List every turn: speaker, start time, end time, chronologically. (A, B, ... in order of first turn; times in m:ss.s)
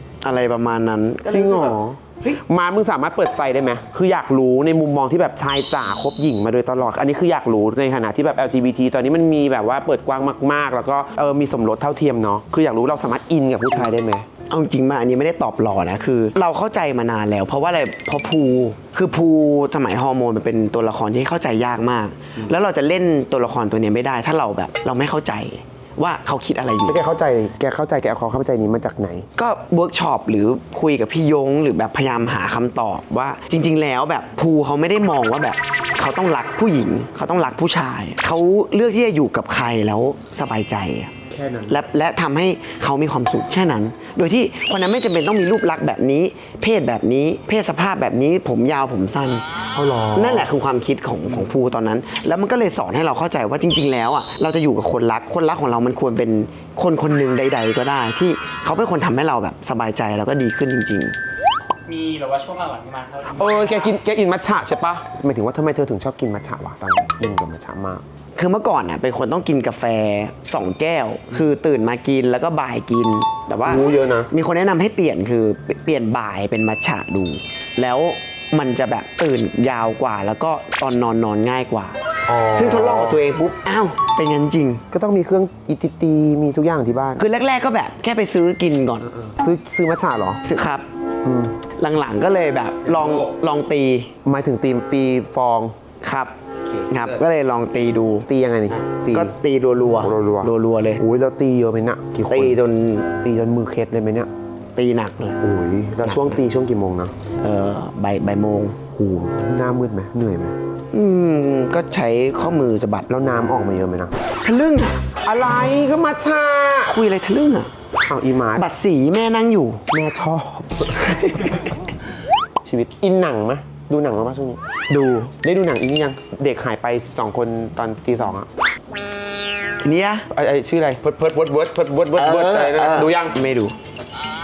0:00.2-0:02.4 A
0:01.3-0:14.3 B
0:14.5-0:27.0 A
0:26.9-0:29.2 B
0:29.4-0:41.1 A
0:41.3-0:41.8 B
0:41.7-0:49.4 A
0:49.7-0:50.5 B
0:50.1-1:01.2 A
1:01.9-1:04.0 C
1:03.4-1:08.0 B
1:08.4-1:22.0 A
1:13.6-1:14.3 B
1:22.3-1:23.2 B
1:22.5-1:24.8 A
1:24.9-1:27.3 B
1:27.2-1:29.1 A
1:29.1-1:30.4 B
1:30.4-1:30.9 A
1:31.2-1:31.6 B
1:31.8-1:34.1 A
1:32.9-1:33.3 B
1:34.2-1:35.7 B
1:36.0-1:36.4 A
1:36.6-1:37.2 B
1:36.9-1:38.3 A
1:38.3-1:39.3 B
1:39.1-1:41.0 A
1:40.0-1:42.6 B
1:42.3-1:43.1 A
1:43.2-1:44.3 B
1:44.8-1:45.4 A
1:45.4-1:47.1 B
1:46.0-1:46.4 A
1:47.4-1:48.8 A
1:48.9-1:50.6 B
1:50.9-1:53.1 A
1:53.1-1:54.1 B
1:54.4-1:55.0 A
1:55.2-1:57.0 B
1:56.9-1:57.7 A
1:58.1-1:58.7 B
1:58.6-1:59.9 A
1:59.9-2:01.7 B
2:00.9-2:01.8 A
2:02.6-2:04.6 B
2:04.9-2:05.3 A
2:05.4-2:08.5 B
2:09.8-2:10.3 A
2:10.3-2:13.4 B
2:12.2-2:13.8 A